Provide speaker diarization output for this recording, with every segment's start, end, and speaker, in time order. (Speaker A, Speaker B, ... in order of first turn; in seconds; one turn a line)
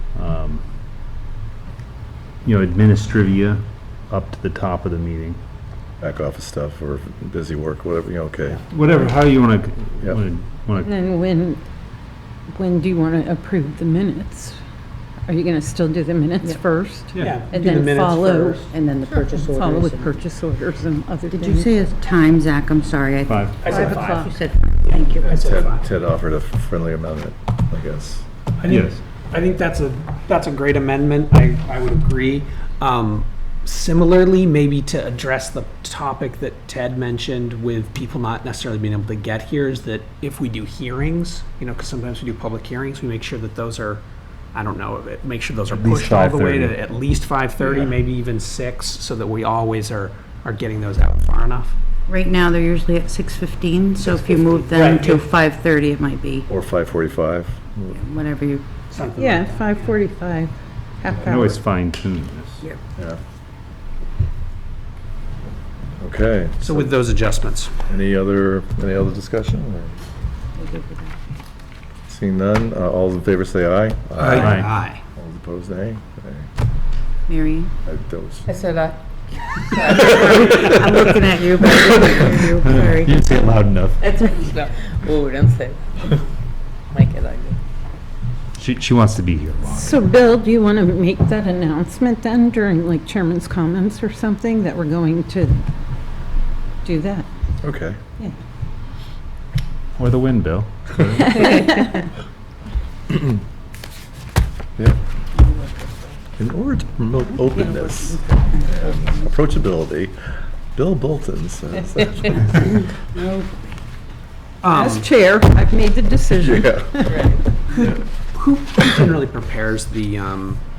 Speaker A: 0.1-0.6
Speaker A: 2.4-5.4
Speaker B: 6.0-8.6
Speaker A: 8.7-10.9
Speaker C: 10.8-11.6
Speaker C: 12.5-14.6
Speaker C: 15.3-18.6
Speaker D: 17.2-18.7
Speaker E: 18.6-20.2
Speaker C: 19.4-21.8
Speaker E: 21.3-25.4
Speaker A: 23.3-23.6
Speaker D: 23.6-24.3
Speaker C: 23.7-24.3
Speaker B: 25.2-28.2
Speaker D: 25.2-25.8
Speaker D: 28.6-44.0
Speaker A: 28.7-29.0
Speaker D: 44.5-51.7
Speaker A: 45.7-46.8
Speaker E: 52.1-56.5
Speaker D: 54.0-55.2
Speaker B: 56.5-58.0
Speaker E: 57.9-58.6
Speaker D: 58.9-59.9
Speaker C: 59.1-61.6
Speaker A: 61.2-62.6
Speaker B: 66.0-66.9
Speaker D: 66.6-67.7
Speaker B: 67.9-70.0
Speaker E: 70.6-71.1
Speaker B: 72.1-76.5
Speaker D: 74.2-75.0
Speaker A: 74.4-74.7
Speaker E: 77.3-77.7
Speaker B: 77.8-78.5
Speaker F: 78.5-79.0
Speaker F: 79.6-80.7
Speaker B: 79.8-81.0
Speaker E: 80.6-83.2
Speaker A: 82.6-84.1
Speaker F: 84.0-85.8
Speaker F: 86.9-87.6
Speaker A: 88.6-90.0
Speaker C: 89.7-95.6
Speaker C: 96.8-97.3
Speaker B: 97.6-98.0
Speaker A: 100.0-101.3
Speaker B: 101.0-101.5
Speaker C: 101.4-102.0
Speaker B: 106.4-110.1
Speaker E: 107.6-108.7
Speaker B: 110.7-112.9
Speaker C: 113.1-113.4
Speaker D: 114.6-115.0
Speaker C: 114.7-117.3
Speaker B: 116.4-117.2
Speaker D: 117.7-120.6